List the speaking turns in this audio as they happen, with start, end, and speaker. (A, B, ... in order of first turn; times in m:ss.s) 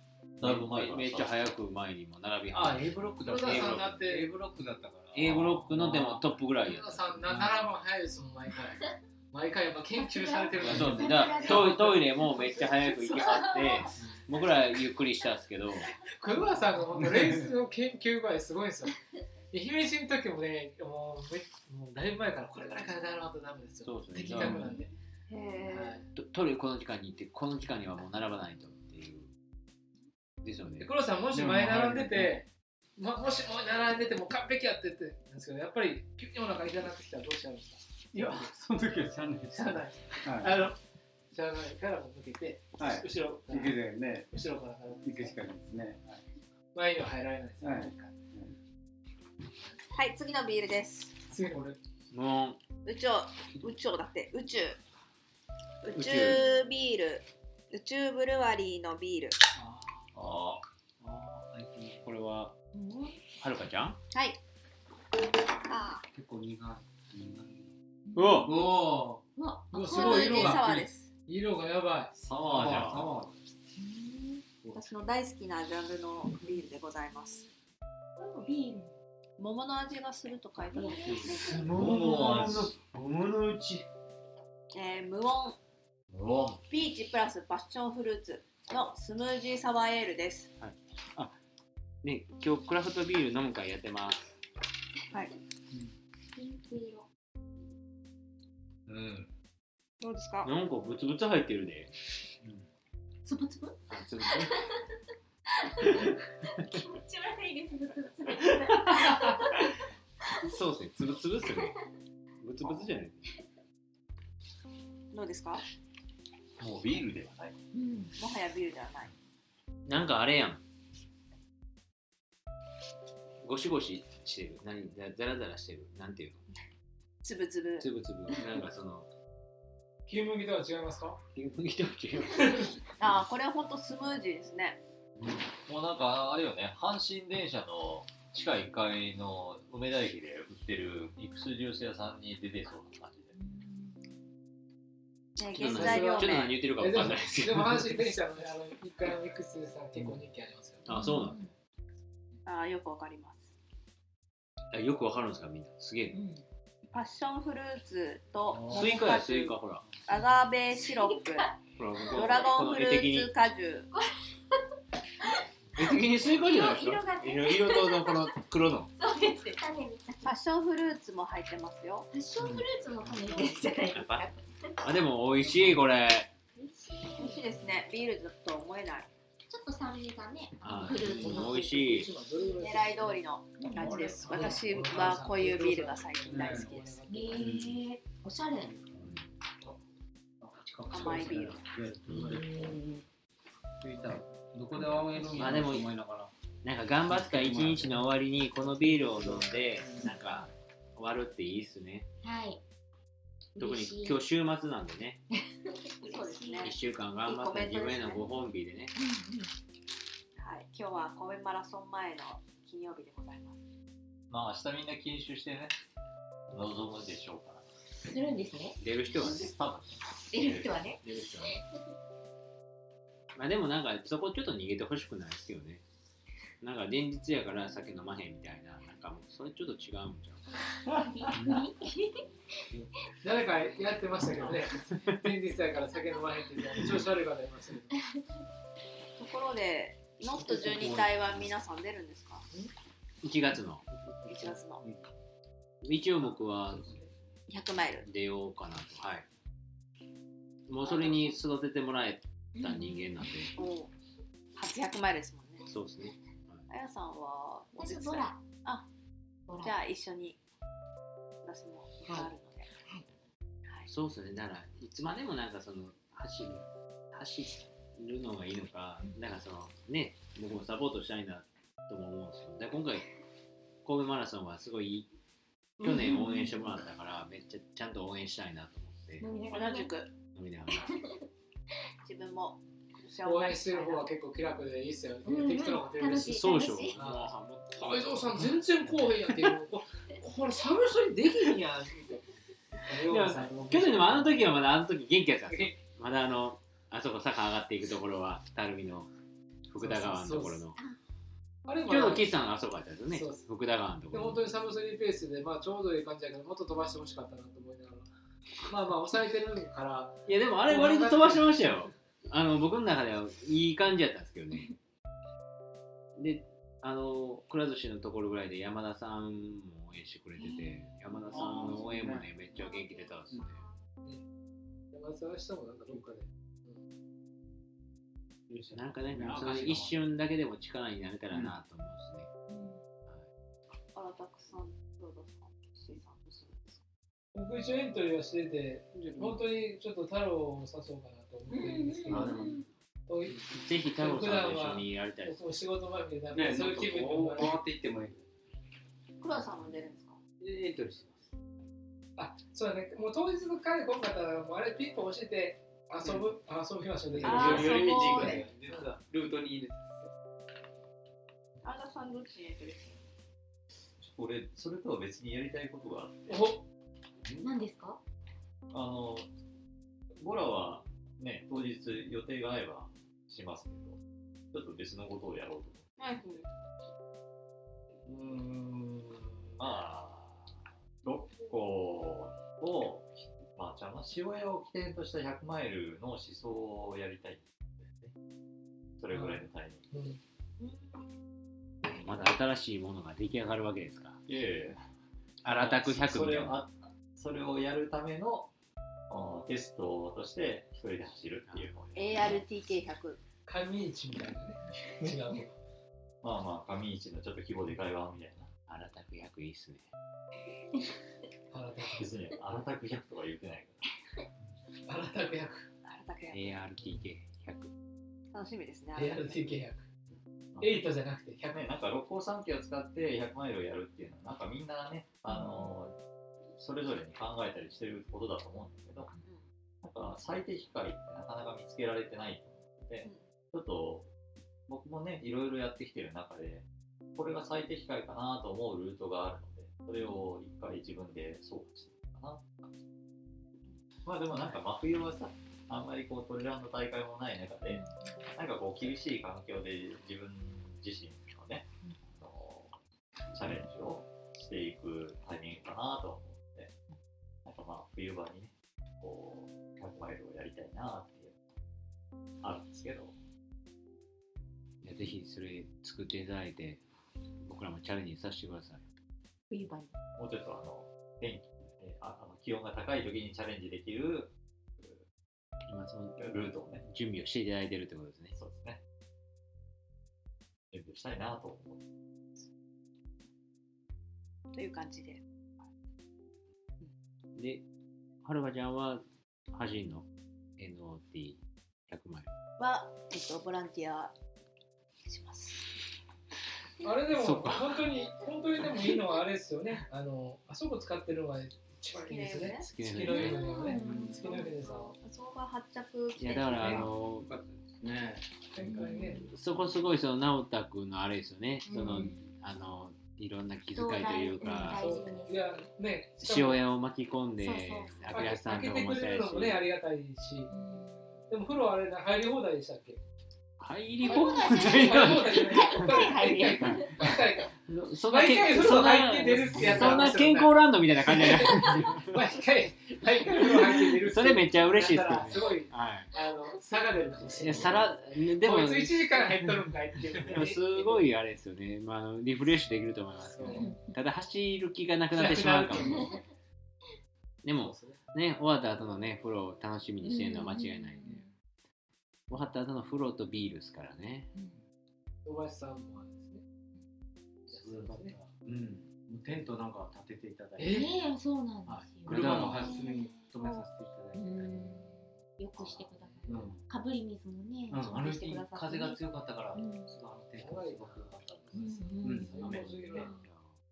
0:00.4-0:01.5 A
0:00.4-0:03.9 B
0:02.5-0:06.4 C
0:03.2-0:04.3 D
0:05.1-0:07.0 B
0:06.6-0:12.0 D
0:07.2-0:07.6 C
0:09.9-0:13.9 E
0:10.6-0:15.9 B
0:10.7-0:11.1 C
0:16.2-0:18.9 D
0:17.0-0:17.5 C
0:19.5-0:24.9 D
0:23.8-0:24.7 B
0:24.4-0:24.9 E
0:25.3-0:26.0 F
0:25.6-0:26.0 D
0:26.1-0:29.3 B
0:30.4-0:30.9 B
0:30.8-0:38.4 D
0:31.3-0:32.4 C
0:38.1-0:40.7 C
0:39.5-0:40.8 D
0:41.3-0:45.4 D
0:42.8-0:44.3 C
0:45.0-0:46.2 C
0:46.7-0:48.1 D
0:47.6-0:48.5 C
0:49.9-0:51.2 F
0:51.3-0:51.8 D
0:52.1-0:52.6 B
0:52.8-0:54.8 F
0:55.8-0:59.4 F
0:55.9-0:56.4 B
0:59.5-1:00.1 C
1:00.1-1:00.6 A
1:01.0-1:02.0 C
1:02.0-1:02.5 B
1:02.7-1:03.2 E
1:03.4-1:04.0 B
1:04.1-1:04.4 F
1:05.6-1:06.0 F
1:06.1-1:07.7 C
1:08.0-1:08.5 E
1:08.2-1:08.6 B
1:08.4-1:09.2 C
1:09.4-1:10.4 E
1:09.7-1:12.1 D
1:09.7-1:11.1 F
1:12.1-1:13.2 A
1:12.4-1:13.3 C
1:13.8-1:14.4 E
1:14.7-1:17.4 F
1:18.2-1:18.9 E
1:19.4-1:21.4 F
1:20.7-1:22.1 E
1:20.7-1:21.4 C
1:21.4-1:23.8 B
1:21.5-1:22.8 A
1:24.7-1:25.6 F
1:26.1-1:26.6 A
1:26.7-1:30.5 F
1:30.6-1:31.4 B
1:32.0-1:34.3 B
1:36.3-1:37.1 E
1:38.9-1:39.3 A
1:40.0-1:40.5 F
1:40.4-1:41.9 B
1:43.2-1:44.7 E
1:43.9-1:44.6 B
1:45.6-1:49.7 E
1:50.4-1:51.8 B
1:52.4-1:53.3 B
1:55.1-1:55.6 F
1:56.6-1:57.6 A
1:57.7-1:58.1 E
1:58.2-1:59.1 F
1:59.8-2:00.6 B
2:03.4-2:06.4 B
2:07.2-2:07.9 F
2:07.8-2:09.1 B
2:10.0-2:11.2 D
2:11.3-2:12.7 B
2:12.3-2:12.7 D
2:13.0-2:14.8 F
2:15.6-2:23.3 A
2:23.3-2:24.0 E
2:25.4-2:26.6 F
2:25.5-2:28.0 B
2:25.7-2:26.2 D
2:26.7-2:30.9 D
2:30.8-2:31.4 B
2:30.9-2:31.5 E
2:32.4-2:33.5 F
2:34.7-2:36.2 B
2:36.1-2:36.4 E
2:36.9-2:41.5 F
2:38.5-2:38.9 C
2:38.7-2:39.8 B
2:40.8-2:41.5 E
2:41.8-2:43.3 B
2:42.1-2:43.9 F
2:45.2-2:48.3 E
2:45.8-2:48.9 B
2:49.0-2:50.4 E
2:50.2-2:52.1 F
2:52.1-2:54.4 E
2:52.4-2:53.4 C
2:53.9-2:54.3 B
2:54.8-2:56.3 B
2:56.6-2:57.4 E
2:57.2-2:59.1 F
2:59.5-3:01.6 E
3:00.6-3:02.1 B
3:01.0-3:03.2 D
3:02.5-3:07.0 F
3:03.6-3:04.0 E
3:03.8-3:07.5 D
3:03.8-3:04.7 C
3:06.3-3:06.8 C
3:07.1-3:08.7 E
3:07.4-3:07.8 C
3:08.6-3:09.1 C
3:08.9-3:09.2 B
3:10.4-3:13.0 C
3:10.9-3:11.6 F
3:13.8-3:16.3 C
3:15.4-3:15.9 B
3:16.6-3:22.1 B
3:17.1-3:18.1 C
3:18.8-3:20.1 C
3:22.2-3:22.6 E
3:23.5-3:24.2 E
3:23.6-3:25.2 B
3:26.0-3:26.7 E
3:26.0-3:28.3 F
3:26.6-3:28.9 B
3:28.9-3:29.5 E
3:30.4-3:33.6 F
3:34.3-3:35.7 A
3:36.5-3:37.6 A
3:38.0-3:39.4 E
3:38.8-3:39.5 B
3:39.2-3:40.9 A
3:40.3-3:41.0 E
3:41.0-3:41.6 B
3:43.3-3:45.8 B
3:46.6-3:50.5 B
3:50.9-3:52.2 E
3:51.3-3:51.6 C
3:53.2-3:58.0 D
3:59.2-4:02.5 F
4:00.4-4:01.5 C
4:03.2-4:03.8 B
4:04.1-4:05.0 C
4:04.3-4:04.8 F
4:05.8-4:06.9 B
4:06.7-4:07.0 C
4:07.5-4:08.1 F
4:08.0-4:09.2 B
4:10.7-4:13.5 B
4:10.8-4:11.4 F
4:12.6-4:13.1 E
4:13.6-4:13.9 F
4:14.5-4:15.7 F
4:15.7-4:16.6 B
4:16.7-4:18.9 F
4:17.8-4:18.4 E
4:19.5-4:19.8 E
4:19.6-4:20.4 F
4:21.4-4:22.7 F
4:23.9-4:33.1 B
4:33.8-4:35.1 B
4:35.8-4:36.6 E
4:35.8-4:39.2 B
4:39.2-4:39.9 E
4:39.5-4:40.1 F
4:40.3-4:41.0 B
4:40.8-4:41.2 E
4:42.0-4:44.1 F
4:43.2-4:52.2 D
4:45.2-4:47.0 E
4:46.1-4:48.5 B
4:52.8-4:54.5 D
4:53.0-4:59.1 B
4:55.5-4:55.7 D
4:59.7-5:00.8 B
4:59.8-5:00.6 D
5:01.6-5:02.3 D
5:01.9-5:04.4 B
5:03.1-5:03.5 D
5:04.1-5:08.1 D
5:08.7-5:11.8 D
5:10.3-5:14.7 B
5:16.2-5:23.6 B
5:20.4-5:20.9 E
5:21.3-5:22.3 C
5:22.5-5:23.7 E
5:24.9-5:26.8 D
5:28.5-5:30.0 C
5:28.7-5:32.3 B
5:32.5-5:32.8 E
5:33.9-5:36.8 F
5:37.3-5:42.4 D
5:38.9-5:39.4 C
5:41.5-5:42.6 E
5:42.1-5:42.6 B
5:43.1-5:47.6 D
5:43.5-5:45.4 B
5:46.3-5:48.2 C
5:49.2-5:50.2 F
5:50.4-5:51.3 C
5:52.2-5:58.9 D
5:56.0-5:56.3 C
5:57.1-6:00.0 C
5:57.2-5:58.5 F
6:01.6-6:03.0 F
6:04.0-6:06.5 A
6:06.3-6:06.6 D
6:07.4-6:08.0 E
6:08.7-6:09.3 A
6:10.2-6:14.0 A
6:14.5-6:15.9 A
6:16.0-6:16.5 F
6:18.2-6:19.2 C
6:19.6-6:28.1 A
6:29.0-6:29.8 A
6:29.1-6:29.4 D
6:29.9-6:30.2 D
6:30.6-6:31.0 F
6:31.9-6:34.2 B
6:34.3-6:34.8 A
6:35.4-6:36.6 B
6:35.5-6:38.5 A
6:39.1-6:42.4 A
6:41.9-6:43.2 F
6:43.4-6:45.6 D
6:46.2-6:48.5 A
6:48.7-6:49.8 B
6:51.5-6:52.1 D
6:51.9-6:53.8 A
6:54.8-6:55.7 D
6:55.8-6:56.6 F
6:56.3-6:57.7 B
6:58.3-6:59.4 F
6:58.9-6:59.9 D
7:00.5-7:00.8 A
7:00.6-7:01.7 D
7:01.5-7:05.9 A
7:05.3-7:05.7 E
7:06.6-7:09.1 A
7:09.8-7:14.1 A
7:13.0-7:13.3 F
7:14.7-7:22.7 A
7:24.0-7:27.8 A
7:27.7-7:28.3 E
7:28.3-7:32.8 A
7:33.3-7:36.7 A
7:37.4-7:41.4 A
7:42.4-7:43.1 A
7:44.8-7:46.8 B
7:47.4-7:48.9 B
7:49.5-7:50.0 E
7:50.2-7:55.0 A
7:55.7-7:58.4 B
7:56.2-7:56.8 A
7:58.3-7:58.8 A
8:00.7-8:01.8 A
8:04.5-8:05.2 F
8:07.4-8:07.6 B
8:08.2-8:10.1 B
8:10.6-8:12.3 B
8:12.6-8:14.1 F
8:15.0-8:15.7 F
8:16.8-8:25.0 D
8:17.1-8:17.7 B
8:21.9-8:22.7 F
8:22.6-8:23.4 B
8:23.1-8:24.6 E
8:23.7-8:24.2 C
8:24.3-8:26.9 F
8:26.2-8:27.3 B
8:26.6-8:28.3 C
8:28.5-8:29.3 D
8:28.6-8:29.3 E
8:29.3-8:34.9 B
8:31.7-8:32.3 E
8:33.7-8:35.6 E
8:34.6-8:36.6 D
8:36.2-8:39.6 B
8:37.4-8:38.3 E
8:38.1-8:40.5 D
8:40.5-8:41.2 E
8:41.3-8:43.0 D
8:43.6-8:46.0 B
8:44.0-8:47.2 E
8:44.0-9:01.1 D
8:46.6-8:52.2 B
8:49.6-8:50.0 C
8:54.0-8:56.1 B
8:57.4-8:59.3 B
9:00.3-9:06.1 B
9:03.2-9:03.7 D
9:03.5-9:03.9 E
9:05.1-9:06.2 D
9:05.8-9:06.1 E
9:07.4-9:11.0 B
9:07.6-9:08.0 D
9:10.0-9:11.3 E
9:12.3-9:14.3 B
9:15.2-9:16.4 D
9:17.5-9:18.2 D
9:17.5-9:20.9 C
9:20.6-9:20.9 D
9:20.6-9:29.9 E
9:21.6-9:24.9 C
9:22.1-9:22.7 B
9:26.0-9:26.3 D
9:26.3-9:26.6 C
9:27.7-9:33.1 C
9:30.4-9:33.1 D
9:31.5-9:33.2 E
9:32.4-9:33.5 B